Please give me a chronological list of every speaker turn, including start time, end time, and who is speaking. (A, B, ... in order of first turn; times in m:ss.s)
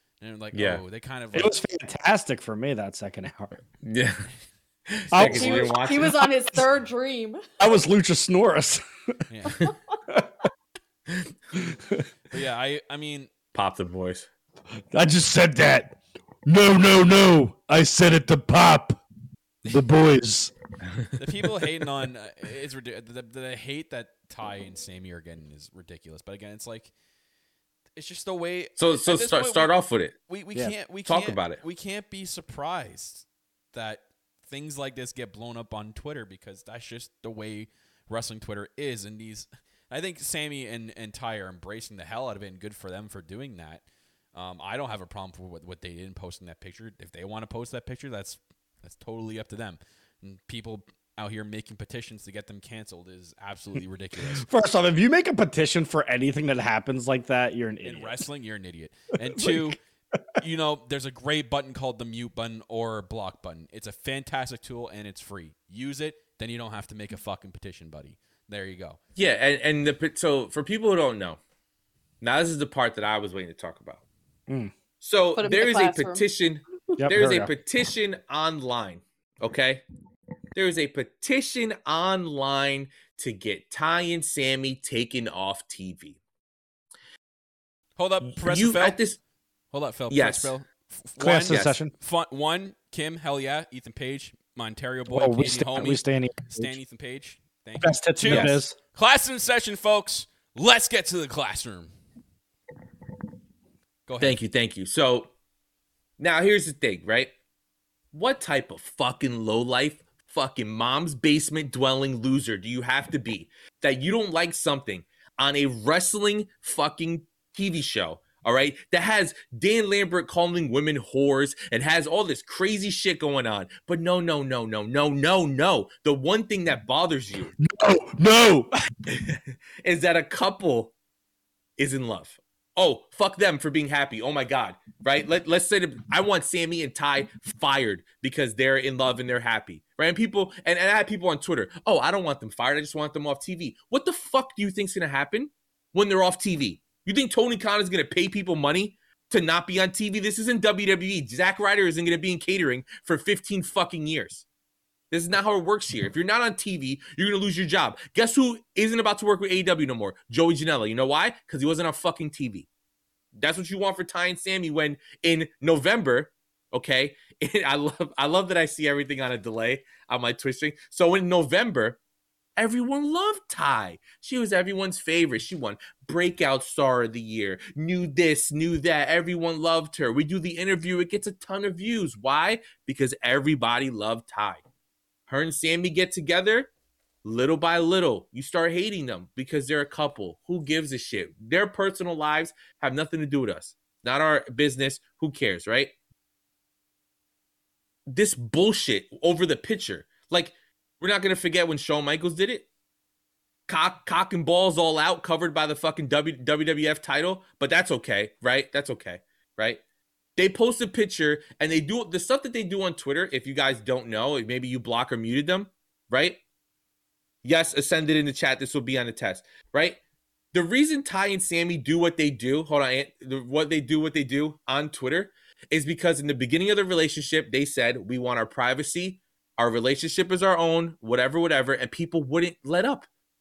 0:00.2-0:01.6 A
0:00.5-0:00.8 B
0:01.3-0:03.6 C
0:03.8-0:04.3 B
0:04.9-0:06.1 B
0:05.1-0:06.6 C
0:05.2-0:07.4 D
0:07.6-0:09.2 C
0:09.3-0:09.7 A
0:11.5-0:12.0 C
0:12.3-0:13.3 A
0:13.5-0:14.3 B
0:14.9-0:19.0 C
0:19.6-0:20.5 C
0:21.2-0:26.9 A
0:28.0-0:43.8 A
0:28.8-0:30.2 B
0:31.0-0:31.6 B
0:44.3-0:54.5 A
0:54.2-0:58.2 C
0:57.8-0:59.8 A
0:59.4-0:59.8 C
1:00.4-1:09.0 A
1:09.2-1:11.4 B
1:12.2-1:14.0 B
1:14.5-1:14.7 C
1:15.0-1:19.8 B
1:15.4-1:16.2 D
1:17.0-1:17.5 C
1:20.6-1:26.2 B
1:28.0-1:29.0 A
1:28.4-1:29.2 B
1:29.7-1:41.9 A
1:30.1-1:30.5 B
1:31.2-1:31.9 C
1:31.4-1:31.8 B
1:35.1-1:36.8 C
1:37.8-1:38.8 C
1:38.3-1:38.6 B
1:44.1-1:44.4 A
1:44.2-1:45.3 B
1:46.2-1:47.3 B
1:48.1-2:07.5 B
2:07.6-2:08.7 C
2:09.1-2:10.9 B
2:11.8-2:34.4 B
2:35.1-2:42.7 B
2:43.4-2:52.0 B
2:52.6-3:04.6 B
3:05.3-3:06.7 B
3:07.2-3:15.9 B
3:18.1-3:22.7 B
3:23.7-3:29.8 B
3:30.4-3:36.4 B
3:37.4-3:40.0 B
3:40.5-3:53.1 B